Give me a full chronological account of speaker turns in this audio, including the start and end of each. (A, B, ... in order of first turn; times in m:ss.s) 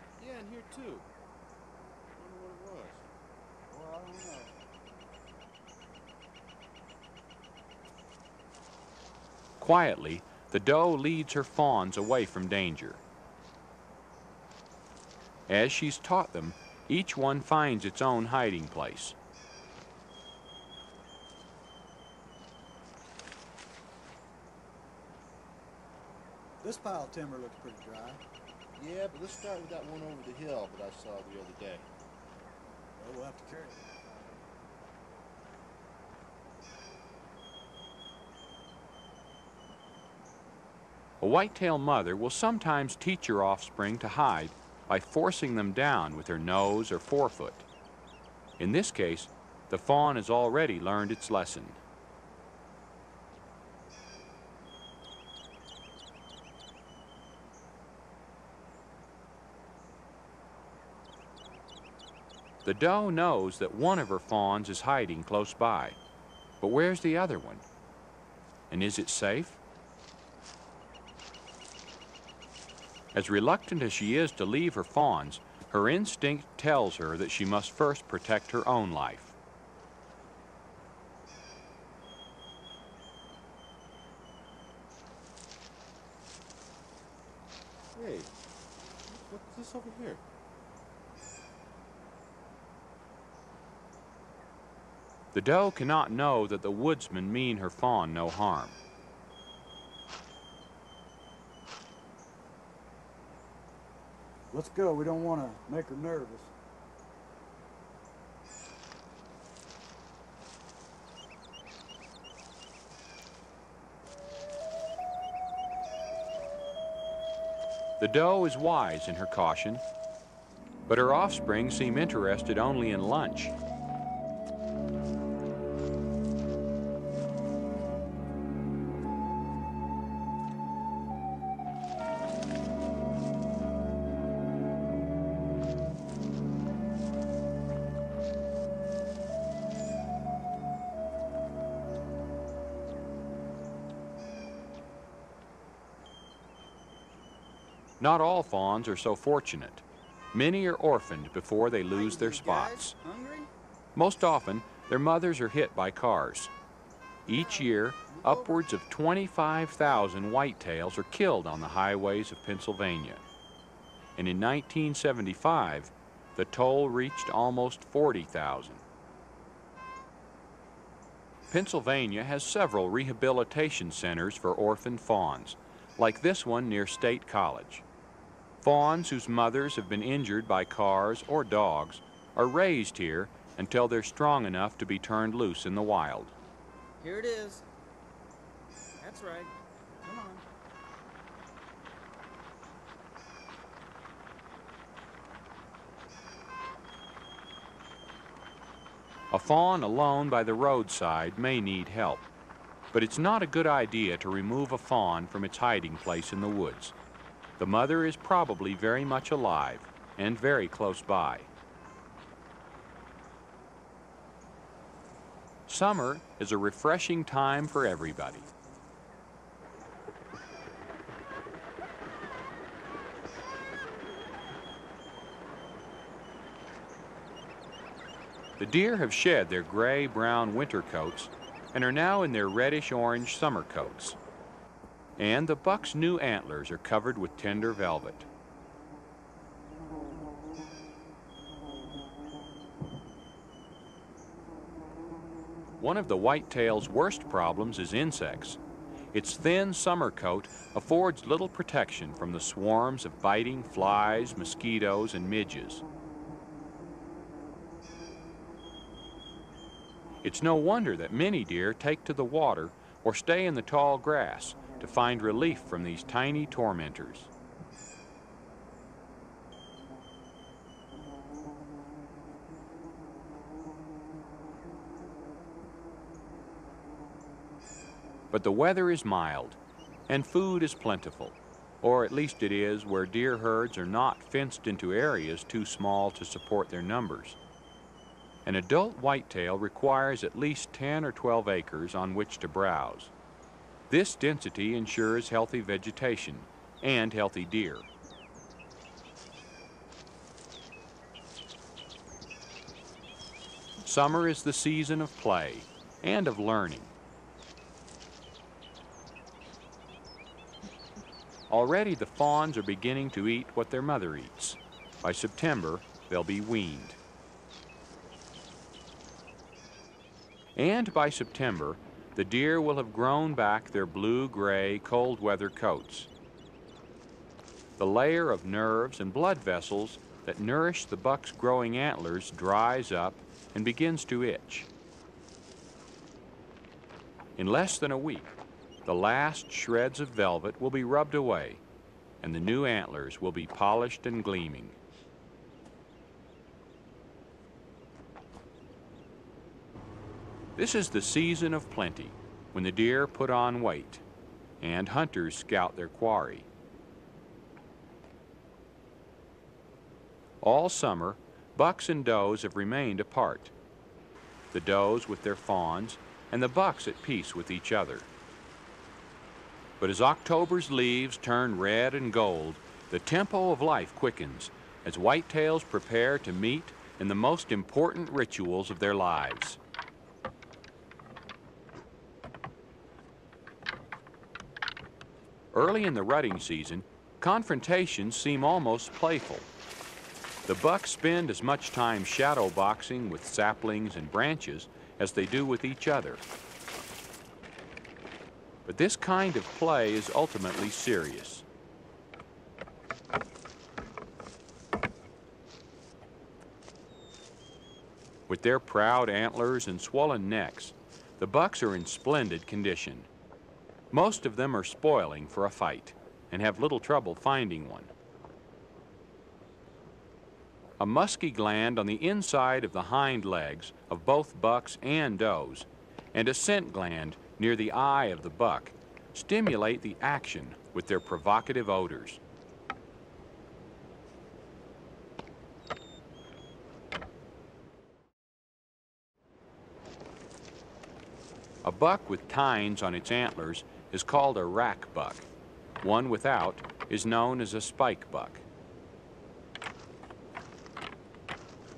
0:00.2-0:01.1 A
0:02.2-0:03.0 A
0:03.7-0:04.6 B
0:09.6-0:13.0 C
0:15.5-0:19.2 C
0:26.6-0:28.2 B
0:28.8-0:31.9 A
0:33.0-0:34.4 B
0:41.2-0:47.7 C
0:48.6-0:51.8 C
1:02.6-1:06.0 C
1:06.6-1:07.6 C
1:08.7-1:09.6 C
1:13.1-1:19.4 C
1:28.0-1:28.3 A
1:29.1-1:30.2 A
1:35.3-1:38.8 C
1:44.5-1:46.5 B
1:58.0-1:59.8 C
2:00.9-2:03.6 C
2:28.0-2:33.0 C
2:31.9-2:33.5 B
2:34.0-2:36.5 C
2:37.3-2:43.2 C
2:37.3-2:38.6 B
2:44.2-2:48.8 C
2:51.5-2:57.8 C
2:58.6-3:06.4 C
3:07.0-3:07.6 B
3:09.0-3:09.5 B
3:10.0-3:10.4 B
3:19.3-3:22.2 C
3:22.9-3:27.0 C
3:27.6-3:31.5 C
3:35.7-3:38.5 C
3:48.6-3:54.2 C
3:55.2-3:58.3 C
4:05.8-4:08.6 C
4:09.1-4:15.8 C
4:20.2-4:27.3 C
4:38.3-4:47.4 C
4:48.4-4:53.1 C
4:53.9-4:57.9 C
5:03.8-5:06.9 C
5:11.5-5:17.0 C
5:20.6-5:26.1 C
5:27.8-5:34.7 C
5:37.4-5:38.3 C
5:38.8-5:41.6 C
5:42.2-5:44.8 C
5:50.6-5:54.0 C
5:54.6-5:56.5 C
6:00.4-6:03.5 C
6:04.5-6:08.1 C
6:09.8-6:19.6 C
6:25.5-6:29.5 C
6:30.5-6:36.2 C
6:38.7-6:41.5 C
6:48.3-6:53.1 C
6:53.9-6:57.9 C
7:00.8-7:12.2 C
7:21.6-7:25.3 C
7:25.8-7:28.4 C